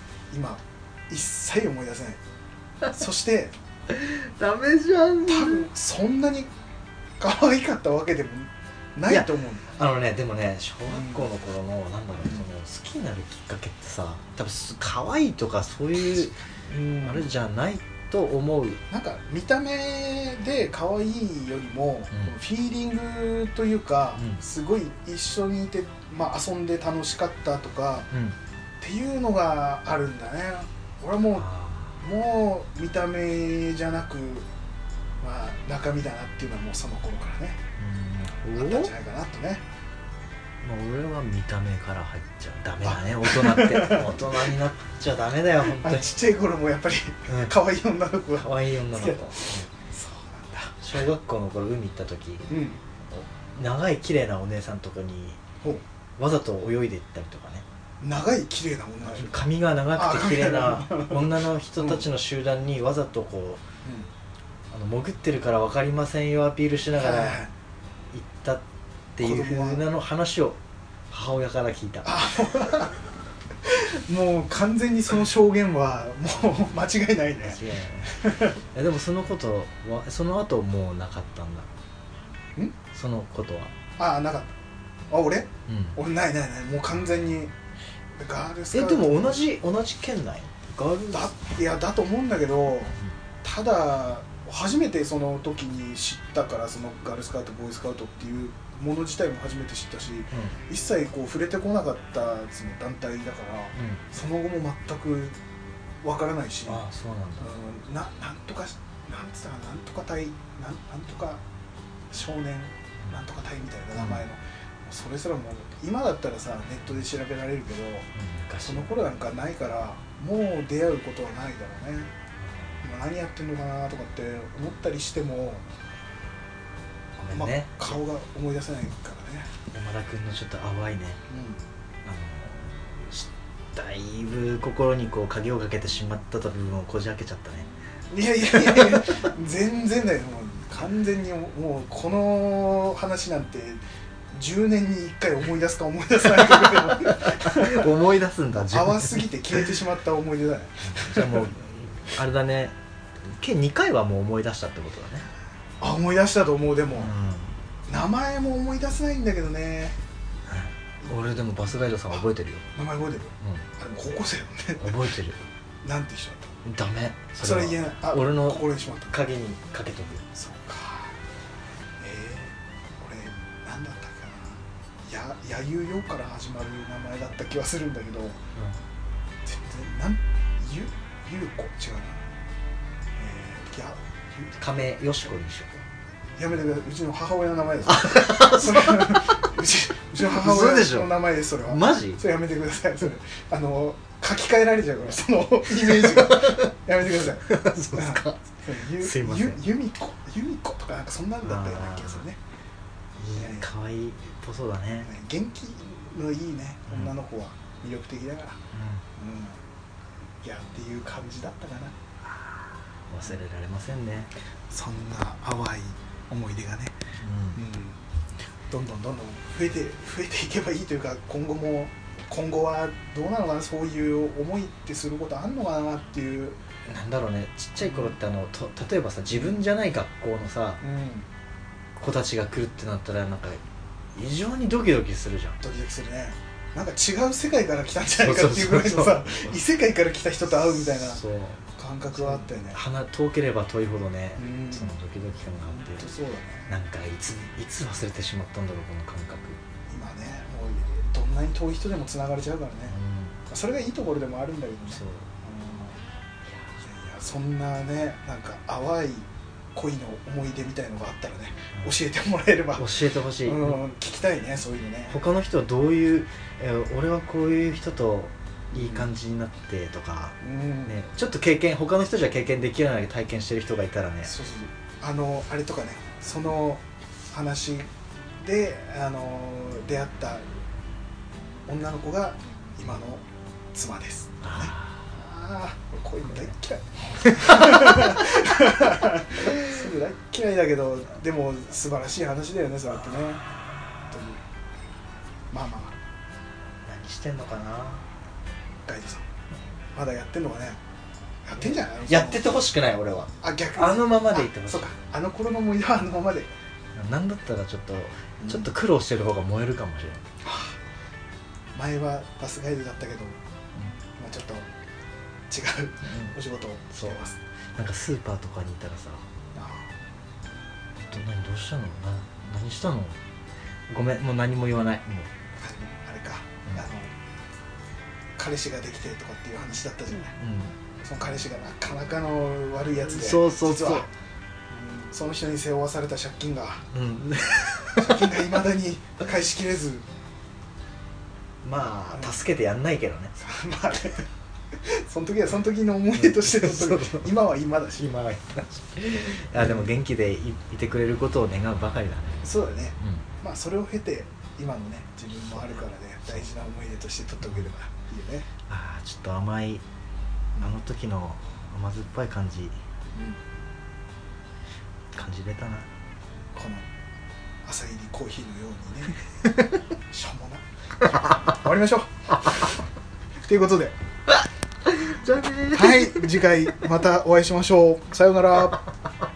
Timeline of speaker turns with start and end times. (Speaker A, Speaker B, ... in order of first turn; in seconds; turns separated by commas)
Speaker A: 0.3-2.2, Speaker A: 2.9-3.5, Speaker B: 3.9-5.7, Speaker A: 5.3-6.5, Speaker A: 7.2-9.6, Speaker B: 9.1-16.4, Speaker A: 10.9-11.3, Speaker A: 16.7-17.3, Speaker B: 17.0-18.8, Speaker A: 18.9-28.1, Speaker B: 28.1-28.4, Speaker A: 28.8-31.5, Speaker B: 31.4-32.0, Speaker A: 32.0-34.5, Speaker A: 35.2-37.6, Speaker B: 37.8-38.9, Speaker A: 38.5-39.6, Speaker B: 40.6-46.1, Speaker A: 42.8-44.6, Speaker A: 45.6-50.8, Speaker B: 47.3-47.5, Speaker B: 48.4-49.7, Speaker B: 50.8-52.6, Speaker A: 52.5-52.8, Speaker B: 53.1-55.4, Speaker B: 56.2-57.6, Speaker A: 58.0-59.4, Speaker B: 59.1-63.6, Speaker A: 59.9-62.0, Speaker A: 63.8-64.1, Speaker B: 64.7-67.4, Speaker A: 67.0-67.5, Speaker B: 68.1-68.6, Speaker B: 69.2-72.2, Speaker A: 69.2-69.8, Speaker A: 72.0-73.0, Speaker A: 73.6-78.6, Speaker B: 77.4-81.7, Speaker B: 82.9-83.7, Speaker A: 84.0-84.5, Speaker A: 85.1-87.5, Speaker B: 85.7-86.0, Speaker A: 88.2-89.4, Speaker B: 88.7-91.3, Speaker A: 91.1-105.4, Speaker B: 100.3-100.6, Speaker B: 103.8-104.0, Speaker A: 106.0-106.8, Speaker B: 106.7-107.5, Speaker A: 107.4-111.4, Speaker A: 112.1-118.1, Speaker B: 114.0-114.2, Speaker B: 118.2-119.0, Speaker A: 118.7-122.1, Speaker B: 122.4-122.9, Speaker A: 122.8-125.7, Speaker B: 127.2-128.0, Speaker A: 127.3-129.5, Speaker B: 129.7-131.2, Speaker A: 131.3-131.6, Speaker B: 132.1-137.7, Speaker A: 138.1-143.8, Speaker B: 138.5-139.3, Speaker A: 144.3-147.9, Speaker B: 146.3-149.7, Speaker A: 148.7-151.5, Speaker B: 150.8-155.3, Speaker A: 155.8-157.1, Speaker B: 157.0-157.6, Speaker A: 157.9-160.0, Speaker B: 160.5-162.7, Speaker A: 162.8-165.0, Speaker B: 163.4-163.7, Speaker B: 164.8-165.4, Speaker A: 165.8-166.6, Speaker B: 166.6-170.2, Speaker A: 167.4-169.2, Speaker A: 170.3-171.2, Speaker A: 172.0-178.4, Speaker A: 179.4-182.3, Speaker A: 183.2-184.5, Speaker B: 184.6-185.8, Speaker A: 186.4-202.4, Speaker B: 187.8-189.4, Speaker B: 190.2-192.2, Speaker B: 195.8-196.7, Speaker B: 197.4-199.6, Speaker B: 201.4-202.2, Speaker B: 203.2-205.1, Speaker A: 203.4-203.7, Speaker A: 205.0-208.6, Speaker B: 208.7-209.0, Speaker A: 209.2-209.6, Speaker A: 210.4-212.0, Speaker B: 213.1-214.3, Speaker A: 214.7-217.0, Speaker B: 217.2-217.6, Speaker A: 217.6-218.0, Speaker A: 218.7-226.6, Speaker B: 226.9-230.8, Speaker A: 227.8-228.2, Speaker A: 229.3-229.6, Speaker A: 230.8-231.3, Speaker B: 232.0-233.6, Speaker B: 234.2-235.6, Speaker A: 235.6-241.2, Speaker B: 238.2-239.6, Speaker B: 240.6-246.1, Speaker A: 241.8-242.8, Speaker A: 244.4-244.9, Speaker A: 245.7-246.7, Speaker B: 246.7-249.6, Speaker A: 249.9-253.0, Speaker B: 252.9-253.4, Speaker A: 253.5-256.0, Speaker B: 254.9-255.3, Speaker B: 256.5-256.8, Speaker A: 256.8-262.9, Speaker B: 262.8-263.8, Speaker A: 263.4-265.2, Speaker B: 265.1-274.4, Speaker A: 268.7-269.1, Speaker A: 270.4-270.9, Speaker A: 274.2-280.5, Speaker A: 281.7-293.4, Speaker B: 284.4-285.1, Speaker B: 287.2-288.4, Speaker A: 294.1-294.4, Speaker A: 295.5-296.0, Speaker B: 296.9-298.0, Speaker A: 298.9-299.3, Speaker A: 299.9-300.8, Speaker A: 301.4-302.6, Speaker B: 301.6-305.0, Speaker A: 303.4-306.5, Speaker B: 306.9-310.3, Speaker A: 308.4-308.7, Speaker A: 310.4-310.8, Speaker A: 311.7-313.4, Speaker A: 314.2-314.7, Speaker A: 315.5-317.4, Speaker B: 316.0-316.4, Speaker B: 316.9-317.2, Speaker B: 317.8-319.3, Speaker A: 319.5-319.9, Speaker B: 321.0-323.2, Speaker B: 323.9-325.3, Speaker A: 325.6-327.1, Speaker A: 328.4-330.4, Speaker B: 330.3-330.8, Speaker A: 331.0-334.1, Speaker B: 333.0-334.1, Speaker A: 334.7-336.9, Speaker B: 336.9-338.4, Speaker A: 337.9-340.1, Speaker B: 341.6-343.4, Speaker A: 342.1-342.4, Speaker A: 343.4-348.1, Speaker B: 346.1-347.3, Speaker B: 348.0-352.5, Speaker A: 349.6-349.9, Speaker A: 352.4-358.5, Speaker B: 353.0-353.3, Speaker B: 355.6-356.4, Speaker B: 357.4-357.7, Speaker B: 358.7-359.8, Speaker B: 360.6-362.8, Speaker A: 363.1-363.4, Speaker B: 365.1-365.9, Speaker A: 366.5-366.9, Speaker A: 367.6-369.2, Speaker B: 369.5-369.8, Speaker A: 370.1-370.6, Speaker B: 371.1-371.4, Speaker A: 371.5-372.7, Speaker A: 373.4-373.9, Speaker B: 374.9-376.4, Speaker A: 375.7-378.8